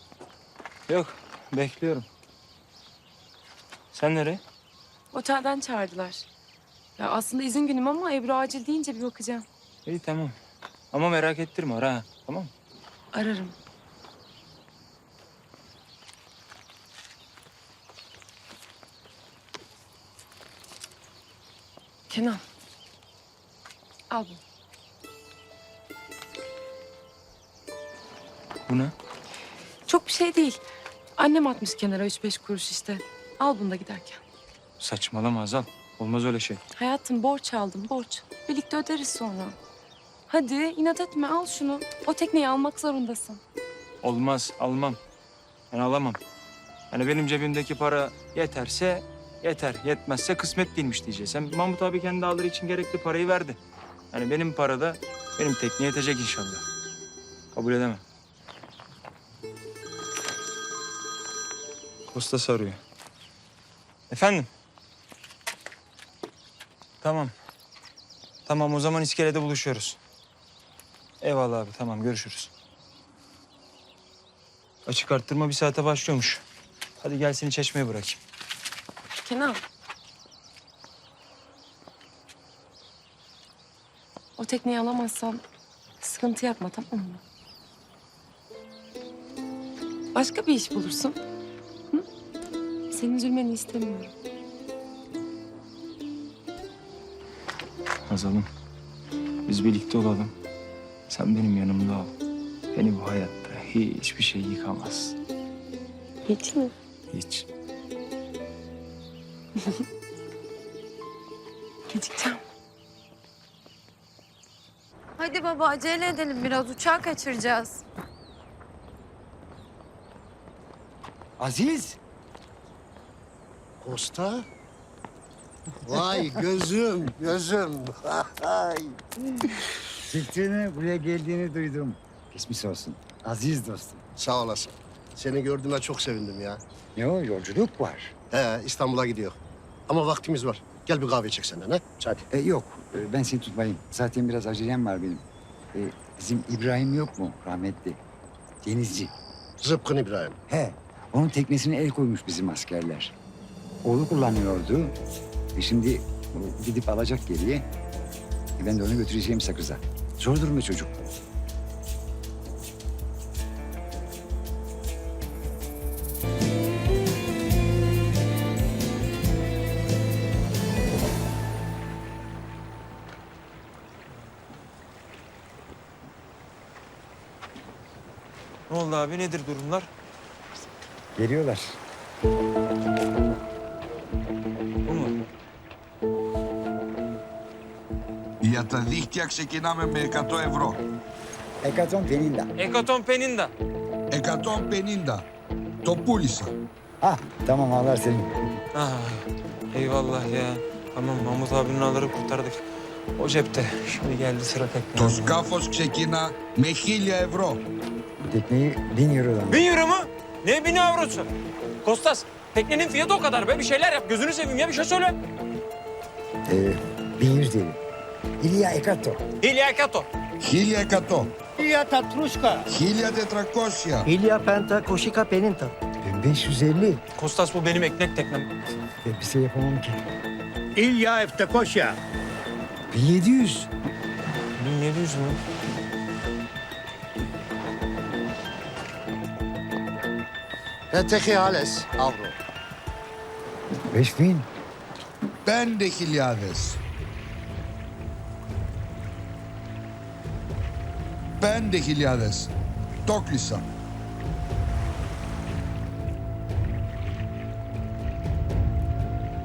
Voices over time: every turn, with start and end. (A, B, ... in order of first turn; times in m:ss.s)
0:00.9-0:02.0 A
0:03.9-0:04.4 A
0:05.1-0:06.3 B
0:07.0-0:09.4 B
0:09.8-0:10.3 A
0:10.9-0:12.5 A
0:13.1-0:13.5 B
0:22.1-0:22.4 B
0:24.1-0:24.4 B
0:28.7-0:28.9 A
0:29.9-0:30.6 B
0:31.2-0:34.2 B
0:34.8-0:36.6 A
0:36.7-0:39.5 B
0:40.3-0:43.4 B
0:44.0-0:45.0 A
0:45.7-0:46.2 A
0:46.9-0:53.6 A
0:54.1-0:56.6 A
0:57.5-0:58.0 A
1:02.1-1:02.8 A
1:04.1-1:04.5 A
1:07.0-1:07.3 A
1:08.4-1:10.0 A
1:11.2-1:12.5 A
1:14.8-1:16.4 A
1:17.0-1:18.2 A
1:19.2-1:19.6 B
1:24.4-1:25.4 B
1:26.0-1:27.2 B
1:30.1-1:31.2 B
1:32.9-1:34.1 B
1:38.1-1:38.5 A
1:39.5-1:40.3 A
1:41.1-1:42.1 A
1:42.7-1:45.2 A
1:46.3-1:46.7 B
1:47.1-1:47.4 A
1:51.9-1:52.4 B
1:55.2-1:57.8 C
2:01.4-2:02.0 D
2:03.8-2:04.4 E
2:05.8-2:09.0 E
2:10.1-2:14.0 D
2:14.2-2:16.6 E
2:17.0-2:18.1 D
2:18.3-2:19.4 E
2:19.9-2:22.2 E
2:22.3-2:28.0 D
2:28.6-2:29.1 D
2:29.6-2:30.4 E
2:30.5-2:33.1 D
2:33.8-2:34.9 D
2:35.5-2:37.6 D
2:38.6-2:40.9 D
2:58.7-2:59.9 A
3:01.2-3:01.8 D
3:04.8-3:05.2 A
3:08.4-3:10.8 F
3:11.6-3:12.5 D
3:12.6-3:13.5 A
3:14.1-3:15.2 F
3:15.8-3:16.5 F
3:17.0-3:18.6 D
3:18.7-3:22.6 A
3:23.2-3:25.4 A
3:24.9-3:27.6 F
3:28.2-3:29.7 D
3:29.5-3:31.3 A
3:31.8-3:35.2 A
3:36.5-3:37.8 D
3:38.4-3:39.2 D
3:39.4-3:40.1 A
3:40.4-3:41.3 F
3:41.6-3:42.6 G
3:42.6-3:44.1 F
3:44.0-3:45.7 G
3:46.0-3:47.0 D
3:47.1-3:48.7 A
3:49.0-3:50.0 D
3:50.8-3:52.0 G
3:52.9-3:53.7 D
3:54.6-3:55.4 A
4:00.9-4:02.4 E
4:03.9-4:04.5 D
4:05.4-4:06.8 F
4:11.4-4:12.5 F
4:13.0-4:13.6 F